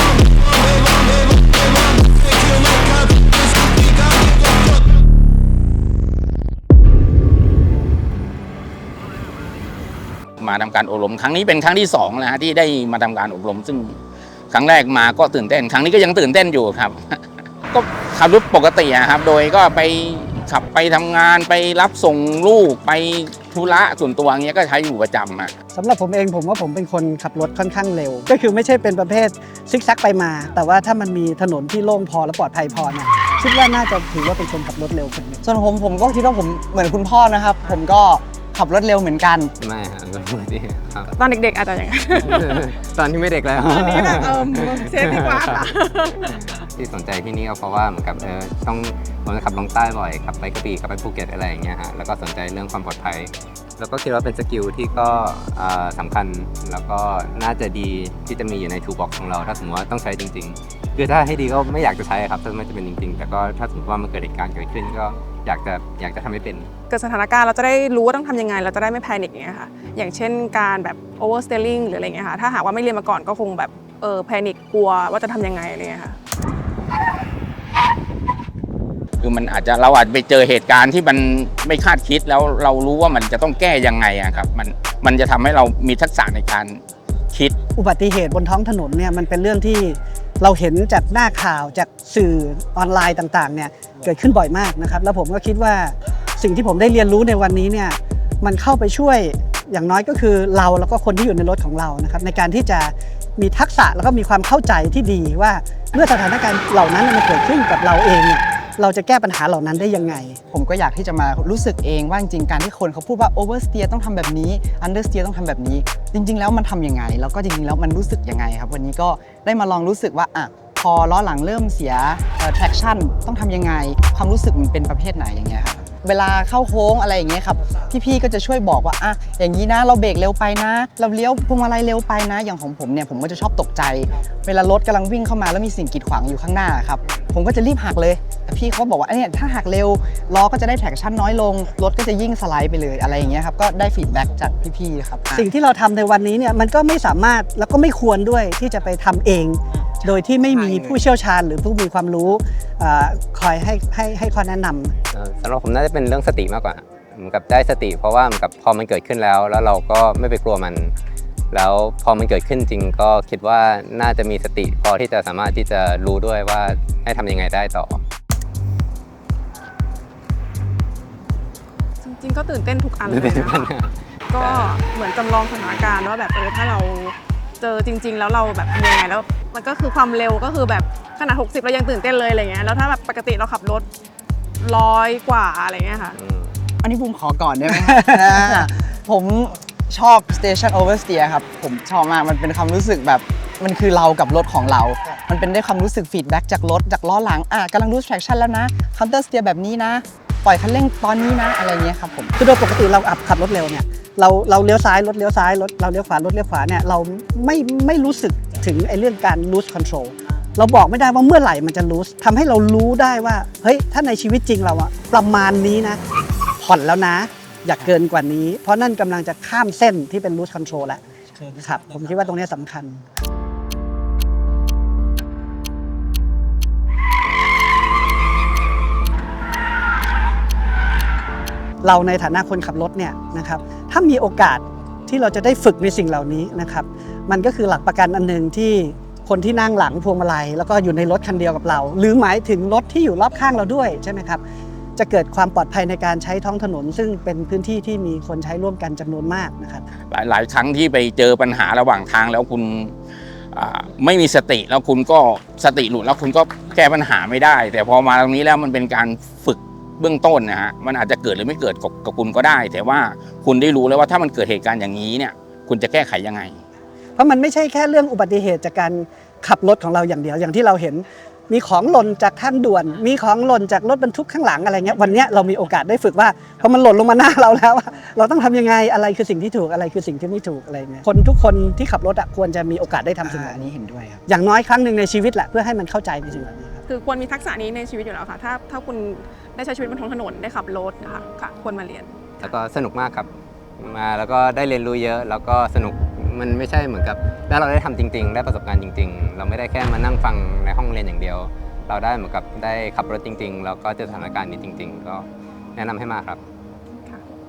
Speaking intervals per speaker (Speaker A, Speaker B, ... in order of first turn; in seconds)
Speaker A: 10.4-14.0, 14.5-25.6, 79.2-86.8, 250.1-252.9, 253.5-266.6
Speaker B: 25.7-35.4, 87.8-110.4, 145.3-154.9, 187.7-188.6, 202.4-216.0, 216.6-223.0, 231.8-244.4, 244.9-249.8, 267.1-283.7, 284.3-286.8
Speaker C: 35.4-39.5, 110.5-145.5, 150.5-151.0, 186.8-202.3, 283.2-284.2
Speaker D: 39.6-41.1, 42.1-45.7, 46.3-66.7, 155.1-160.9, 161.5-168.0, 173.0-174.8, 186.1-186.6, 292.4-306.4
Speaker E: 41.2-42.6, 43.6-46.4, 66.9-76.2, 172.0-173.7, 174.3-183.9, 184.6-186.2, 286.9-292.5